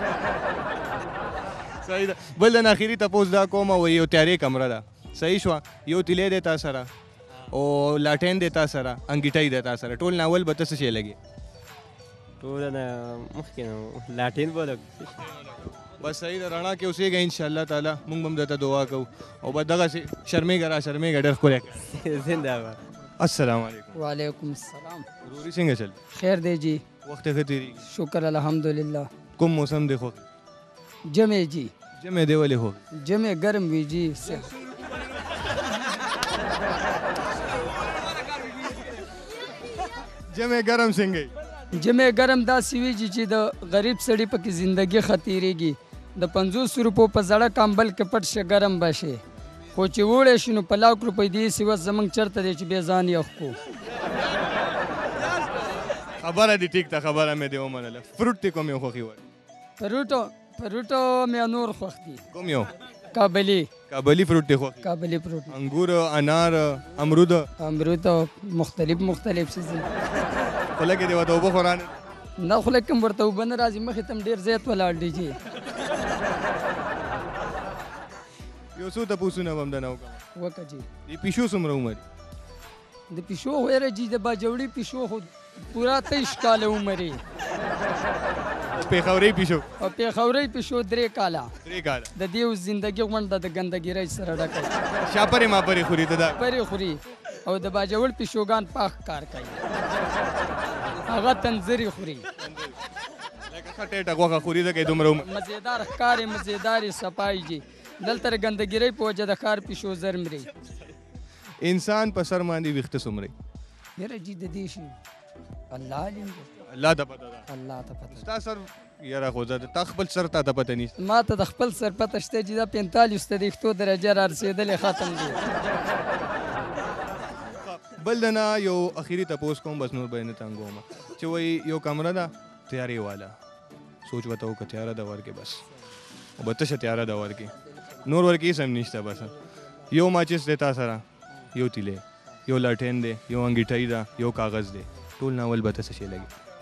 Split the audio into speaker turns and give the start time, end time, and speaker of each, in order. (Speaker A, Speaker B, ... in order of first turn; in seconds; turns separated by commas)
Speaker A: 1.7-6.9, Speaker A: 7.5-11.2, Speaker B: 12.4-15.2, Speaker A: 15.4-21.8, Speaker B: 21.9-22.8, Speaker A: 23.2-23.9, Speaker C: 23.9-25.1, Speaker A: 25.2-26.0, Speaker C: 26.1-26.8, Speaker A: 27.0-27.8, Speaker C: 27.9-29.1, Speaker A: 29.4-30.2, Speaker C: 31.1-31.7, Speaker A: 32.0-32.8, Speaker C: 33.0-34.5, Speaker A: 40.3-41.3, Speaker C: 41.7-49.2, Speaker C: 49.7-53.6, Speaker A: 56.1-59.2, Speaker C: 59.8-62.2, Speaker A: 62.3-62.7, Speaker C: 63.1-63.7, Speaker A: 63.9-64.8, Speaker C: 64.8-65.6, Speaker A: 65.5-67.5, Speaker C: 67.6-69.9, Speaker A: 70.7-72.0, Speaker C: 72.4-75.4, Speaker A: 78.8-80.2, Speaker C: 80.4-80.9, Speaker A: 81.1-82.0, Speaker C: 83.1-87.2, Speaker A: 88.7-89.7, Speaker C: 89.8-91.5, Speaker A: 91.6-92.1, Speaker C: 92.1-94.7, Speaker A: 95.0-96.4, Speaker C: 96.4-99.6, Speaker C: 101.0-102.2, Speaker A: 102.4-102.8, Speaker A: 103.5-105.3, Speaker C: 105.2-110.5, Speaker A: 111.6-113.3, Speaker C: 114.0-115.0, Speaker C: 115.7-116.5, Speaker A: 116.7-117.4, Speaker C: 117.5-118.2, Speaker A: 118.1-120.9, Speaker C: 121.0-125.5, Speaker A: 127.5-133.4, Speaker A: 134.1-135.6, Speaker A: 136.4-139.3, Speaker A: 139.9-141.0, Speaker A: 141.5-146.3